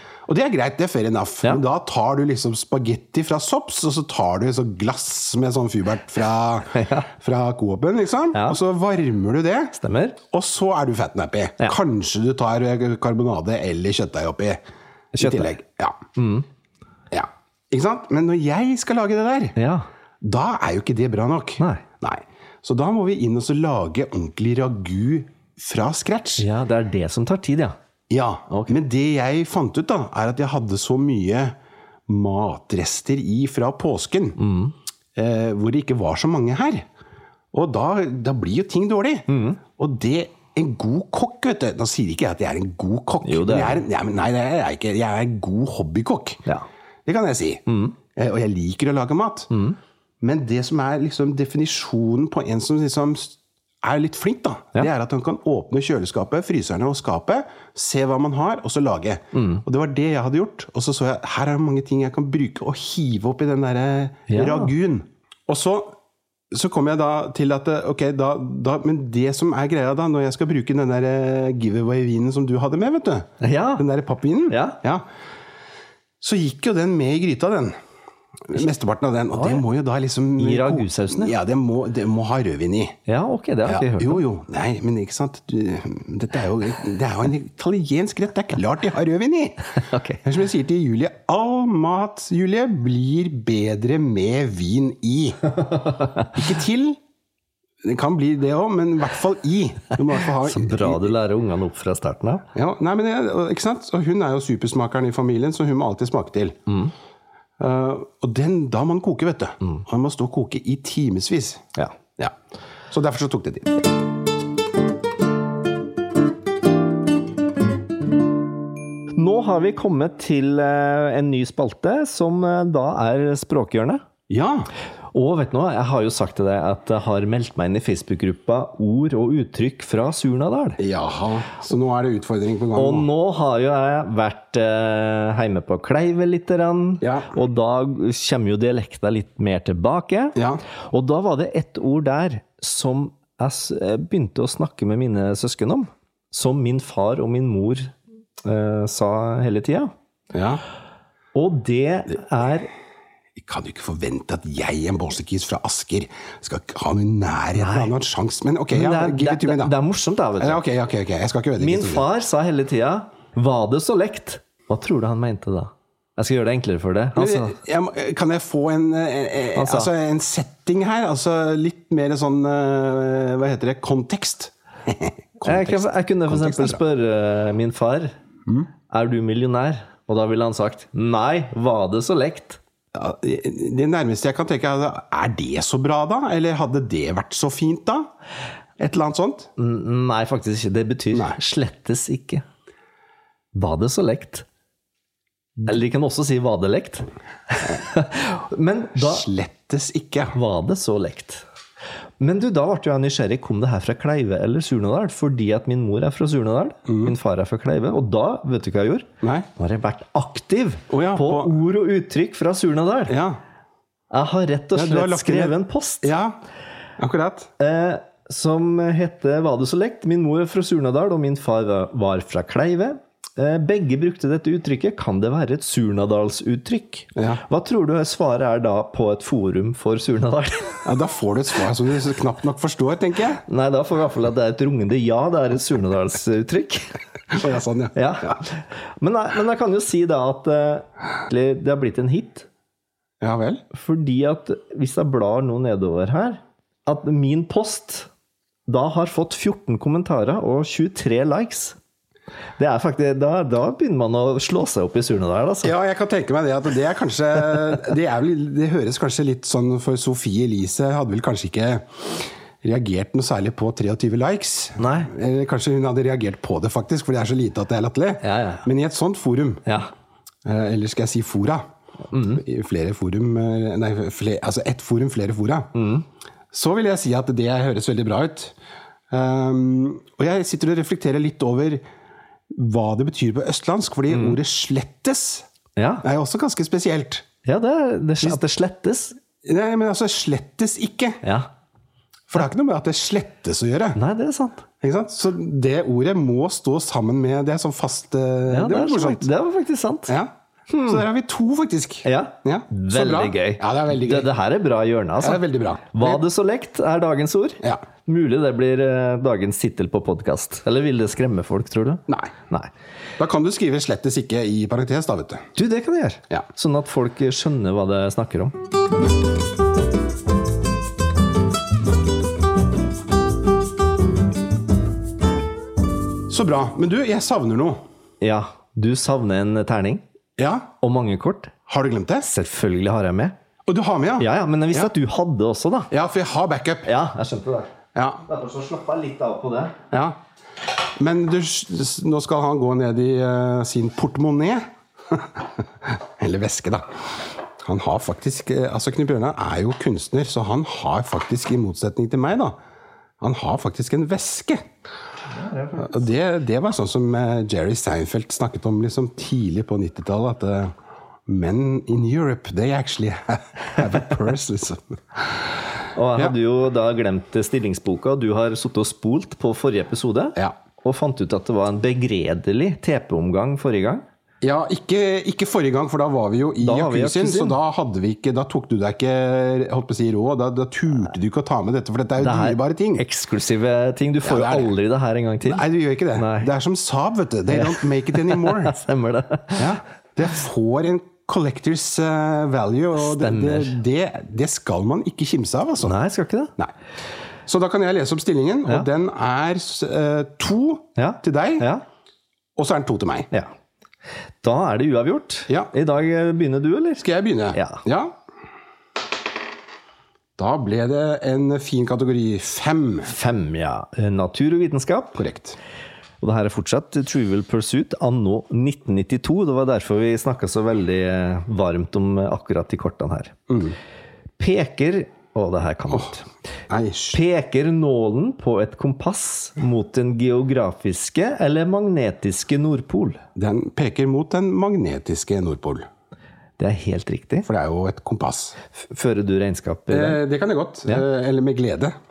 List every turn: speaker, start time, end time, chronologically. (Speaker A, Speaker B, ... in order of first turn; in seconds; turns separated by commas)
Speaker A: 0.2-9.7, Speaker B: 6.7-7.1, Speaker B: 8.3-8.6, Speaker B: 9.7-10.2, Speaker A: 10.3-14.6, Speaker A: 15.1-16.0, Speaker B: 15.2-15.5, Speaker B: 16.1-16.4, Speaker A: 17.1-19.6, Speaker B: 19.6-19.9, Speaker A: 20.2-26.4, Speaker B: 21.6-21.8, Speaker B: 26.4-27.7, Speaker A: 28.1-31.6, Speaker B: 28.5-28.8, Speaker A: 32.1-34.4, Speaker B: 34.4-34.7, Speaker A: 35.1-36.9, Speaker A: 37.5-46.4, Speaker B: 39.3-39.6, Speaker B: 43.2-43.8, Speaker A: 47.0-49.5, Speaker B: 47.7-48.0, Speaker B: 49.5-49.8, Speaker A: 50.2-66.0, Speaker B: 59.3-59.6, Speaker B: 64.3-64.7, Speaker A: 66.5-75.0, Speaker B: 73.4-73.8, Speaker B: 74.5-74.8, Speaker A: 76.2-77.7, Speaker A: 78.5-83.0, Speaker B: 79.3-79.6, Speaker B: 80.4-81.3, Speaker B: 83.1-84.2, Speaker A: 83.7-89.6, Speaker B: 89.8-90.2, Speaker A: 90.2-95.4, Speaker B: 95.6-96.3, Speaker A: 96.3-97.0, Speaker A: 97.8-101.1, Speaker B: 100.4-102.5, Speaker A: 102.5-106.6, Speaker B: 106.7-106.9, Speaker A: 107.6-111.7, Speaker A: 112.9-113.8, Speaker B: 119.1-124.0, Speaker A: 124.3-124.7, Speaker B: 125.1-130.8, Speaker A: 130.8-133.1, Speaker B: 132.8-140.4, Speaker A: 137.0-137.3, Speaker A: 140.3-140.6, Speaker B: 140.9-149.9, Speaker A: 150.3-150.6, Speaker B: 151.3-152.7, Speaker A: 153.3-159.7, Speaker B: 157.5-157.9, Speaker B: 158.7-160.6, Speaker A: 160.4-162.1, Speaker B: 161.6-167.6, Speaker A: 167.2-176.8, Speaker B: 169.5-169.9, Speaker B: 175.4-178.1, Speaker B: 178.9-182.6, Speaker A: 182.9-188.1, Speaker A: 188.8-189.5, Speaker B: 189.6-192.4, Speaker B: 193.5-194.4, Speaker B: 195.7-199.2, Speaker A: 198.9-200.3, Speaker B: 200.3-201.4, Speaker B: 202.2-213.2, Speaker A: 206.8-207.1, Speaker A: 209.2-209.5, Speaker A: 210.9-211.6, Speaker A: 213.1-213.4, Speaker B: 214.1-216.1, Speaker A: 214.7-216.3, Speaker A: 217.0-217.5, Speaker B: 217.6-230.8, Speaker A: 227.2-227.4, Speaker A: 230.8-233.4, Speaker B: 233.5-236.9, Speaker A: 237.3-238.4, Speaker B: 237.9-242.5, Speaker A: 243.2-243.6, Speaker B: 243.7-248.1, Speaker B: 248.7-251.8, Speaker B: 252.6-255.7, Speaker A: 255.6-269.6, Speaker B: 264.8-265.1, Speaker B: 268.2-268.6, Speaker A: 270.4-271.6, Speaker B: 272.1-272.4, Speaker A: 272.3-275.7, Speaker B: 275.7-276.1, Speaker A: 276.5-278.5, Speaker A: 279.1-281.8, Speaker A: 282.5-285.5, Speaker B: 284.1-284.4, Speaker B: 285.8-286.0, Speaker A: 286.0-287.2, Speaker B: 287.4-289.2, Speaker A: 289.4-291.2, Speaker B: 291.2-291.5, Speaker A: 292.3-294.0, Speaker B: 293.9-294.6, Speaker A: 294.8-299.3, Speaker B: 298.5-300.1, Speaker B: 300.7-301.0, Speaker A: 300.9-304.3, Speaker B: 302.0-305.4, Speaker A: 305.2-306.2, Speaker B: 305.9-312.7, Speaker A: 313.2-315.5, Speaker B: 315.6-318.5, Speaker A: 326.3-327.8, Speaker B: 328.2-330.0, Speaker A: 330.4-330.7, Speaker B: 330.8-331.6, Speaker A: 331.7-332.3, Speaker B: 332.2-333.3, Speaker A: 333.6-334.9, Speaker B: 334.2-335.9, Speaker A: 335.9-336.9, Speaker B: 336.9-337.7, Speaker A: 337.9-338.2, Speaker B: 338.2-339.8, Speaker A: 339.9-340.1, Speaker A: 341.0-352.6, Speaker A: 353.2-354.6, Speaker B: 355.3-356.0, Speaker A: 355.8-360.7, Speaker A: 361.2-365.4, Speaker B: 365.9-374.0, Speaker A: 374.4-383.0, Speaker B: 376.6-377.6, Speaker B: 382.2-385.6, Speaker A: 384.2-384.7, Speaker A: 385.4-388.8, Speaker B: 386.1-386.5, Speaker B: 387.5-389.7, Speaker A: 389.6-395.9, Speaker B: 393.0-393.8, Speaker B: 395.8-396.5, Speaker A: 397.4-401.6, Speaker B: 401.0-401.8, Speaker A: 402.6-403.3, Speaker B: 404.4-407.8, Speaker A: 407.0-408.1, Speaker A: 410.4-413.1, Speaker B: 413.0-415.2, Speaker A: 415.1-415.6, Speaker B: 416.2-423.4, Speaker A: 423.5-423.8, Speaker B: 424.4-426.2, Speaker A: 426.7-427.2, Speaker B: 427.1-433.2, Speaker A: 433.4-435.9, Speaker B: 436.6-437.5, Speaker A: 437.4-438.6, Speaker B: 438.8-440.2, Speaker A: 439.9-441.9